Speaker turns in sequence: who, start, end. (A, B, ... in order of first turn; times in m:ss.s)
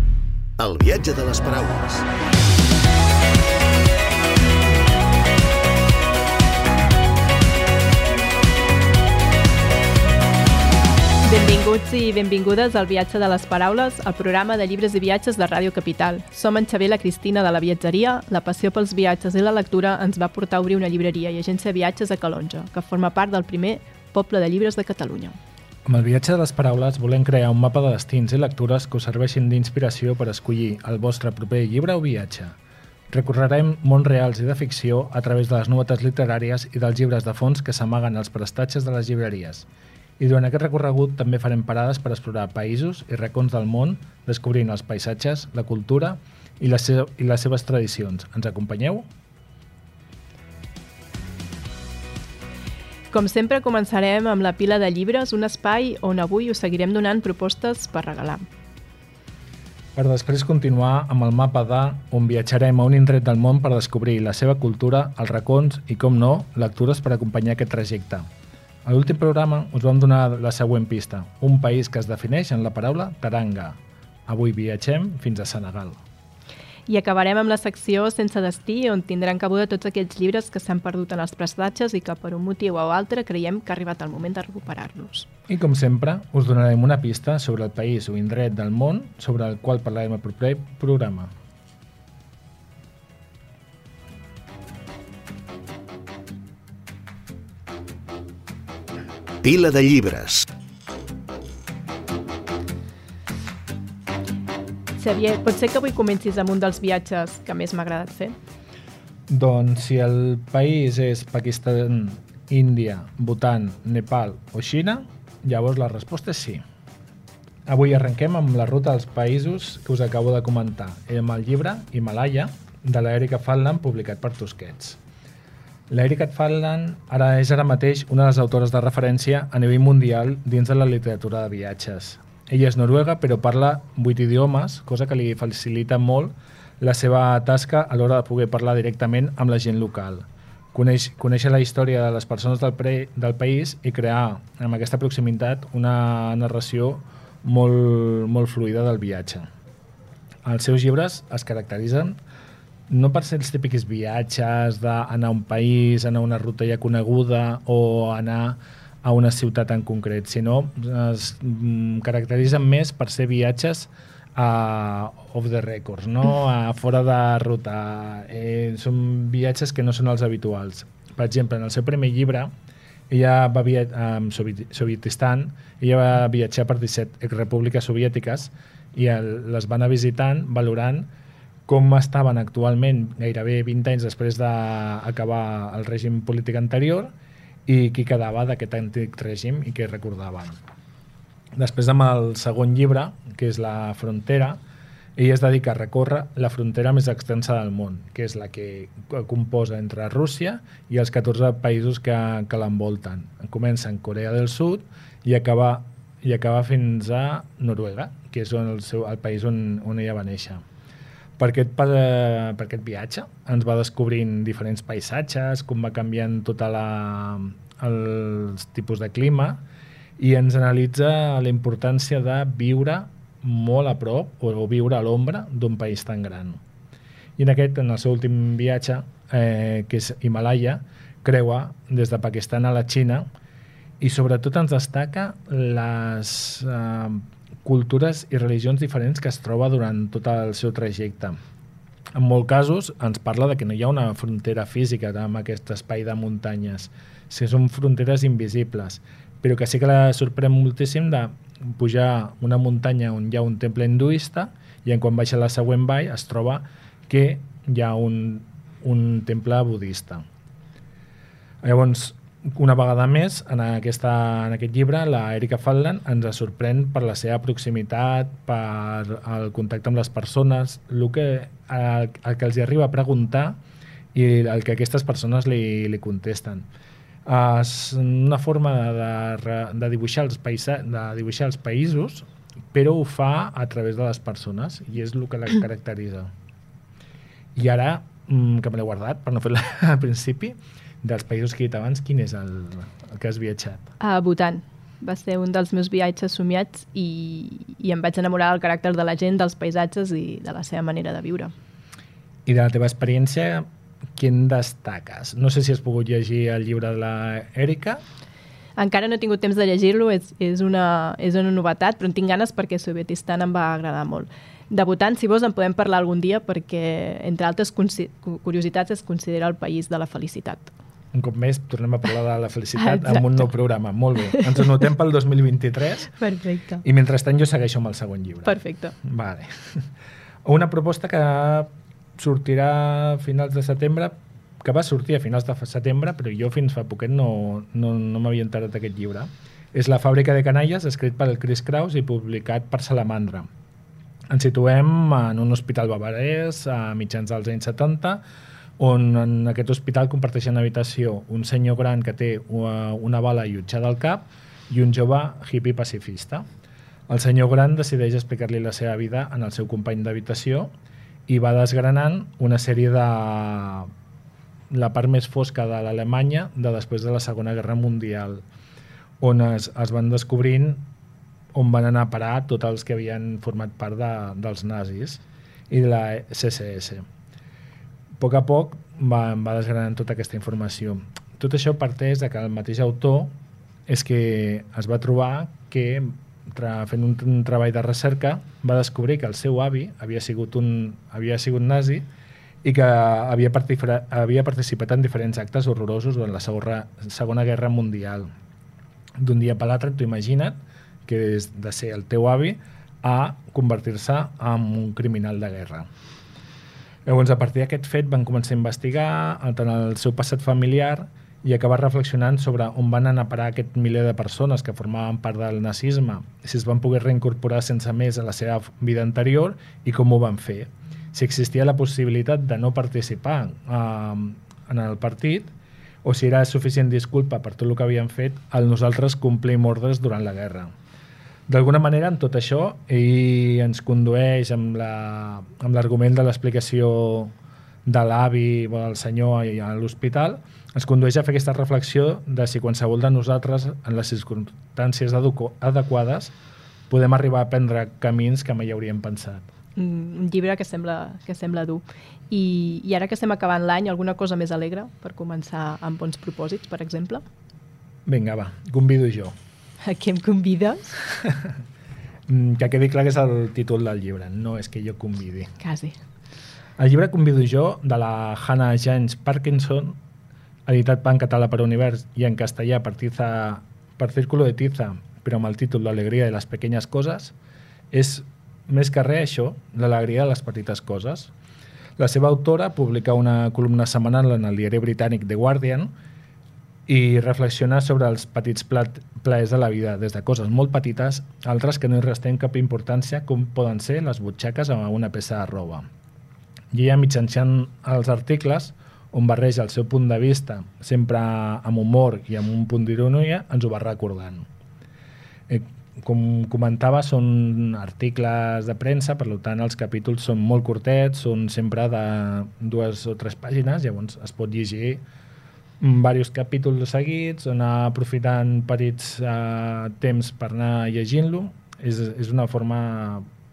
0:00.6-0:02.0 A
0:11.2-0:25.4 B
0:25.8-0:32.6 C
0:33.1-0:39.7 C
0:40.2-0:49.1 C
0:53.1-0:58.4 B
0:59.9-1:08.2 C
1:08.8-1:16.0 C
1:16.9-1:25.3 B
1:25.5-1:31.3 C
1:39.4-1:40.4 A
1:45.0-1:48.3 B
1:49.3-1:56.6 C
1:57.6-2:05.0 C
2:05.9-2:29.5 C
2:30.4-2:32.2 C
2:32.9-2:52.5 C
2:53.1-3:01.1 C
3:01.6-3:07.1 C
3:07.6-3:10.6 C
3:11.5-3:14.6 C
3:15.2-3:30.6 C
3:31.4-3:39.6 C
3:40.2-3:46.6 C
3:47.4-3:53.3 C
3:54.0-4:01.4 C
4:02.1-4:20.2 C
4:21.6-4:33.6 C
4:34.1-4:36.7 C
4:37.2-4:46.3 C
4:47.5-4:53.9 C
4:54.0-5:01.5 B
5:02.4-5:08.0 C
5:08.8-5:20.7 B
5:21.1-5:26.1 C
5:22.8-5:23.4 B
5:26.2-5:26.8 B
5:26.8-5:29.9 C
5:28.4-5:28.9 B
5:30.4-5:43.5 C
5:44.3-5:48.2 C
5:48.8-5:56.4 C
5:57.1-6:00.7 C
6:01.3-6:03.9 C
6:04.7-6:08.4 C
6:09.2-6:10.8 C
6:11.5-6:17.0 C
6:18.2-6:23.3 C
6:23.9-6:32.1 C
6:32.6-6:38.3 C
6:39.2-6:45.9 C
6:47.0-7:05.5 C
7:06.0-7:10.7 C
7:11.5-7:17.3 C
7:17.8-7:26.3 C
7:26.9-7:29.5 C
7:29.8-7:37.2 B
7:38.0-7:39.3 C
7:39.8-7:41.0 B
7:42.3-7:45.5 C
7:45.6-7:46.0 B
7:46.8-7:50.0 C
7:50.6-7:57.3 C
7:57.9-8:01.3 C
8:02.0-8:05.9 C
8:06.9-8:15.9 C
8:16.7-8:24.5 C
8:25.5-8:35.0 C
8:35.8-8:43.2 C